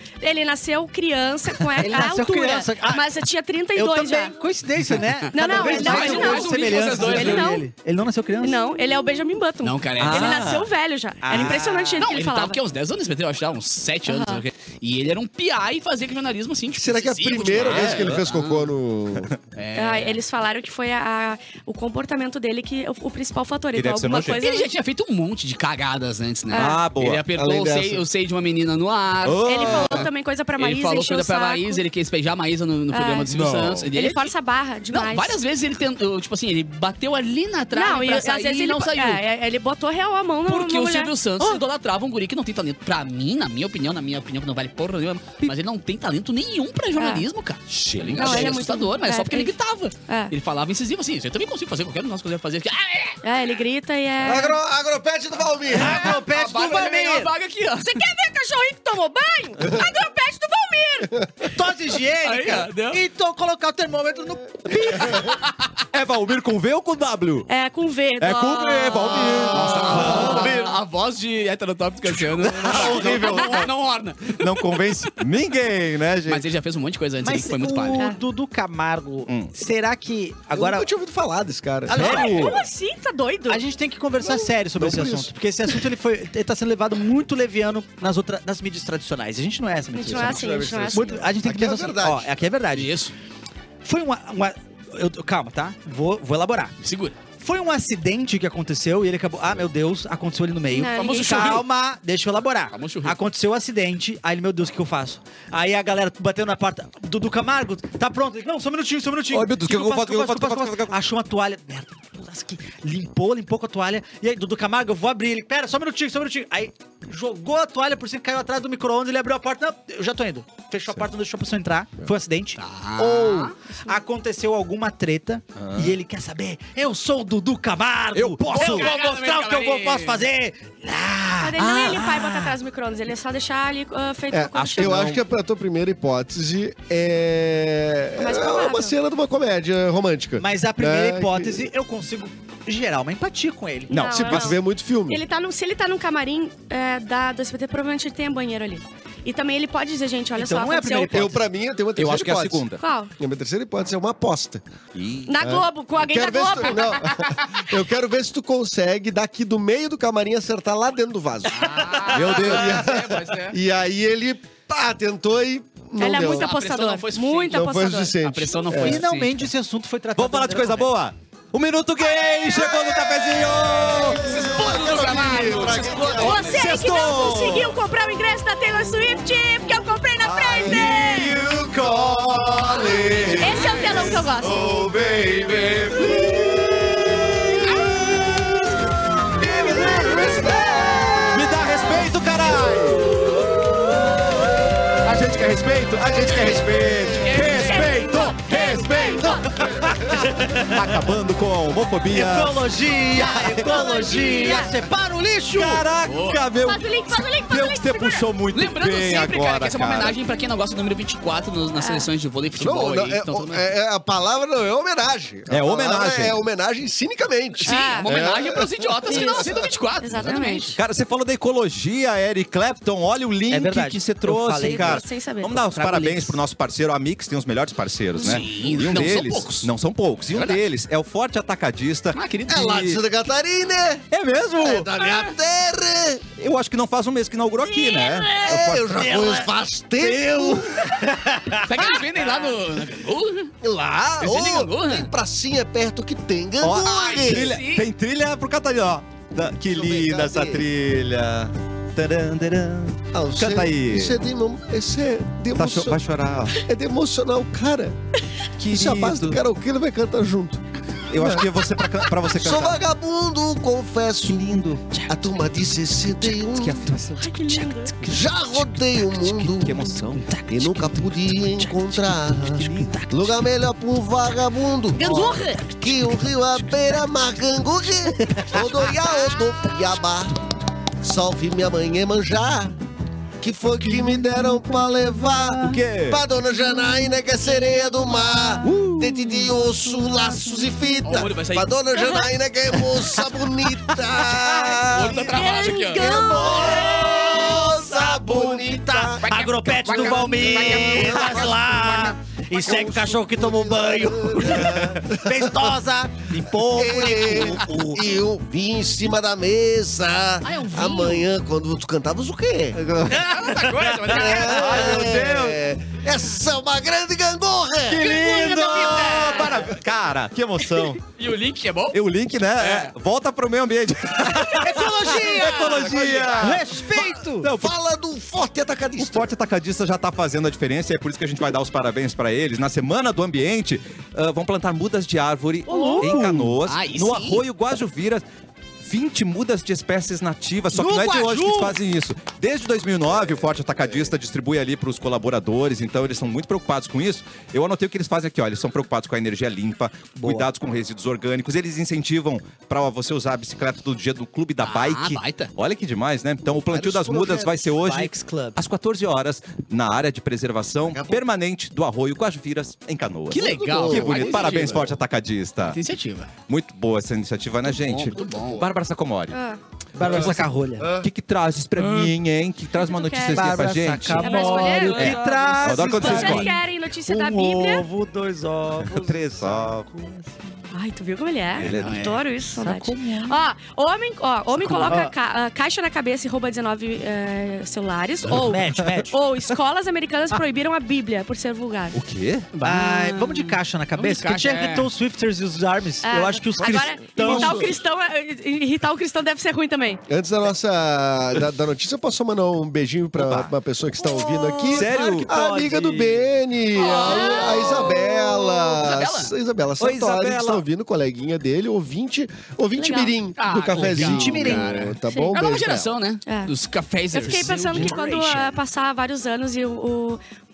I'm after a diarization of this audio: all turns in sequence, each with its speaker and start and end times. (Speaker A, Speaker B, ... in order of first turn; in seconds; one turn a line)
Speaker A: 0.2-4.4
Speaker B: 1.8-3.1
Speaker B: 3.7-8.6
Speaker C: 4.8-7.6
Speaker A: 5.3-7.7
Speaker A: 8.4-12.6
Speaker C: 9.6-10.5
Speaker D: 10.0-10.7
Speaker B: 11.2-12.1
Speaker C: 11.3-18.7
Speaker A: 14.1-14.4
Speaker E: 16.7-19.3
Speaker D: 17.6-18.2
Speaker C: 19.6-20.2
Speaker A: 19.8-24.7
Speaker D: 23.7-24.4
Speaker C: 24.3-34.3
Speaker A: 26.5-26.8
Speaker D: 26.5-27.2
Speaker E: 27.3-28.1
Speaker D: 29.2-30.1
Speaker A: 29.4-31.8
Speaker A: 32.9-33.3
Speaker D: 33.3-33.9
Speaker A: 33.9-35.4
Speaker C: 34.9-39.2
Speaker A: 37.7-41.1
Speaker C: 40.5-53.2
Speaker A: 47.0-47.3
Speaker D: 47.7-48.7
Speaker A: 48.2-49.5
Speaker A: 50.1-50.3
Speaker A: 53.2-54.6
Speaker E: 54.2-56.1
Speaker B: 55.7-57.3
Speaker C: 55.8-58.0
Speaker A: 57.8-61.5
Speaker B: 61.5-65.3
Speaker C: 62.2-63.0
Speaker D: 65.9-67.5
Speaker A: 67.5-69.5
Speaker D: 68.2-70.7
Speaker C: 69.5-75.2
Speaker B: 70.0-70.3
Speaker D: 72.1-73.7
Speaker A: 72.8-73.7
Speaker D: 74.4-76.4
Speaker C: 76.3-78.0
Speaker B: 77.2-80.9
Speaker A: 78.0-78.2
Speaker E: 80.5-82.5
Speaker B: 81.9-82.6
Speaker D: 81.9-82.5
Speaker A: 82.0-83.6
Speaker B: 83.5-92.9
Speaker E: 84.2-85.3
Speaker A: 89.9-91.1
Speaker E: 90.1-92.4
Speaker C: 92.7-93.1
Speaker B: 93.8-96.8
Speaker C: 96.8-97.2
Speaker B: 97.4-131.6
Speaker A: 100.7-101.6
Speaker C: 101.0-101.7
Speaker C: 102.7-103.2
Speaker D: 109.3-111.0
Speaker C: 122.6-123.5
Speaker D: 125.6-126.0
Speaker D: 128.2-128.9
Speaker C: 128.5-130.2
Speaker A: 131.4-135.1
Speaker D: 131.6-132.6
Speaker E: 134.3-141.7
Speaker D: 134.5-135.2
Speaker A: 138.2-138.9
Speaker B: 140.4-144.2
Speaker D: 143.9-144.6
Speaker A: 143.9-151.3
Speaker E: 144.1-145.2
Speaker B: 150.4-151.4
Speaker E: 151.1-152.7
Speaker D: 152.0-152.8
Speaker A: 152.8-153.1
Speaker E: 153.2-154.6
Speaker D: 154.9-155.4
Speaker A: 155.3-157.2
Speaker E: 155.4-166.5
Speaker C: 161.5-163.6
Speaker D: 162.1-162.8
Speaker A: 166.0-168.2
Speaker C: 166.0-167.6
Speaker E: 167.5-169.0
Speaker C: 168.2-169.4
Speaker B: 168.7-170.9
Speaker D: 170.2-174.3
Speaker A: 172.0-173.5
Speaker E: 173.8-176.6
Speaker C: 174.2-176.8
Speaker A: 176.1-181.4
Speaker D: 176.4-177.8
Speaker D: 180.2-193.2
Speaker E: 180.7-181.1
Speaker C: 182.6-184.3
Speaker A: 183.4-184.7
Speaker C: 187.6-188.0
Speaker E: 189.6-191.4
Speaker B: 189.8-190.8
Speaker D: 195.0-203.8
Speaker C: 196.4-198.3
Speaker A: 197.6-199.4
Speaker B: 199.7-201.0
Speaker B: 202.1-205.9
Speaker A: 203.3-204.8
Speaker D: 205.5-210.2
Speaker C: 206.0-206.4
Speaker A: 206.4-208.3
Speaker C: 208.5-213.7
Speaker A: 211.8-212.1
Speaker E: 212.6-219.7
Speaker D: 215.5-216.4
Speaker C: 217.6-220.8
Speaker A: 217.7-218.1
Speaker A: 219.1-220.8
Speaker D: 220.8-233.0
Speaker B: 223.5-225.1
Speaker A: 224.6-225.6
Speaker B: 225.6-226.4
Speaker C: 228.2-229.7
Speaker C: 230.3-230.6
Speaker C: 232.1-233.0
Speaker E: 232.5-234.1
Speaker D: 234.1-235.0
Speaker E: 234.6-236.2
Speaker D: 236.4-239.1
Speaker A: 237.6-238.5
Speaker E: 238.4-240.8
Speaker B: 238.7-241.7
Speaker C: 241.7-243.6
Speaker E: 243.6-247.6
Speaker C: 244.2-245.1
Speaker D: 246.6-254.2
Speaker C: 246.8-247.9
Speaker E: 249.7-250.7
Speaker E: 253.1-256.0
Speaker D: 255.6-256.6
Speaker E: 256.6-258.0
Speaker D: 258.6-259.4
Speaker E: 258.6-261.6
Speaker D: 261.1-262.8
Speaker E: 262.3-266.9
Speaker D: 264.2-265.0
Speaker D: 266.5-267.2
Speaker B: 266.5-268.7
Speaker A: 267.2-268.0
Speaker E: 268.0-269.8
Speaker D: 268.1-270.2
Speaker B: 269.6-273.5
Speaker E: 270.5-280.4
Speaker B: 275.0-276.9
Speaker A: 275.0-275.6
Speaker C: 275.0-275.5
Speaker E: 281.0-282.7
Speaker E: 283.4-299.3
Speaker B: 283.9-285.8
Speaker D: 285.6-286.2
Speaker D: 288.6-289.4
Speaker C: 291.1-292.2
Speaker D: 293.9-295.2
Speaker C: 294.8-296.4
Speaker A: 295.3-297.6
Speaker D: 296.4-297.2
Speaker D: 298.1-298.4
Speaker C: 299.2-301.6
Speaker B: 299.2-308.2
Speaker E: 299.8-305.8
Speaker E: 306.7-313.5
Speaker C: 310.4-311.3
Speaker C: 313.1-314.9
Speaker B: 313.1-313.6
Speaker E: 314.1-318.2
Speaker D: 314.1-315.6
Speaker D: 317.9-321.0
Speaker C: 318.0-319.7
Speaker E: 319.0-319.5
Speaker C: 321.1-322.0
Speaker D: 321.9-327.7
Speaker C: 322.6-322.9
Speaker B: 324.4-327.5
Speaker E: 324.8-326.8
Speaker C: 326.0-326.5
Speaker E: 327.5-329.3
Speaker D: 329.0-338.2
Speaker B: 335.7-336.6
Speaker A: 335.7-336.2
Speaker C: 336.6-337.4
Speaker D: 338.8-365.8
Speaker B: 340.7-341.8
Speaker B: 350.2-350.5
Speaker C: 354.6-355.5
Speaker E: 356.6-357.8
Speaker B: 357.8-358.6
Speaker E: 360.9-361.2
Speaker C: 363.3-364.9
Speaker E: 363.3-365.0
Speaker C: 365.7-366.3
Speaker D: 366.5-369.4
Speaker C: 367.7-368.7
Speaker E: 368.1-368.7
Speaker A: 369.3-369.6
Speaker B: 369.9-370.9
Speaker D: 370.0-370.5
Speaker E: 370.0-371.1
Speaker D: 371.0-376.5
Speaker C: 371.8-372.1
Speaker A: 372.7-375.2
Speaker B: 373.3-380.6
Speaker C: 374.2-376.1
Speaker A: 375.8-377.9
Speaker D: 378.9-379.9
Speaker A: 380.7-392.0
Speaker D: 381.6-382.2
Speaker C: 381.6-382.2
Speaker B: 382.5-383.4
Speaker C: 384.6-385.0
Speaker B: 384.8-385.1
Speaker B: 388.3-389.2
Speaker D: 391.9-392.5
Speaker C: 392.5-394.9
Speaker B: 392.6-397.7
Speaker A: 396.0-400.0
Speaker D: 396.6-397.7
Speaker E: 400.1-415.9
Speaker D: 403.2-403.5
Speaker A: 404.1-404.5
Speaker B: 404.5-406.2
Speaker D: 404.6-405.3
Speaker C: 406.7-409.4
Speaker A: 406.8-408.2
Speaker D: 409.8-410.6
Speaker A: 412.8-413.1
Speaker C: 413.4-417.9
Speaker B: 413.8-414.9
Speaker A: 415.1-415.4
Speaker A: 416.3-416.5
Speaker A: 417.1-420.2
Speaker B: 417.2-418.6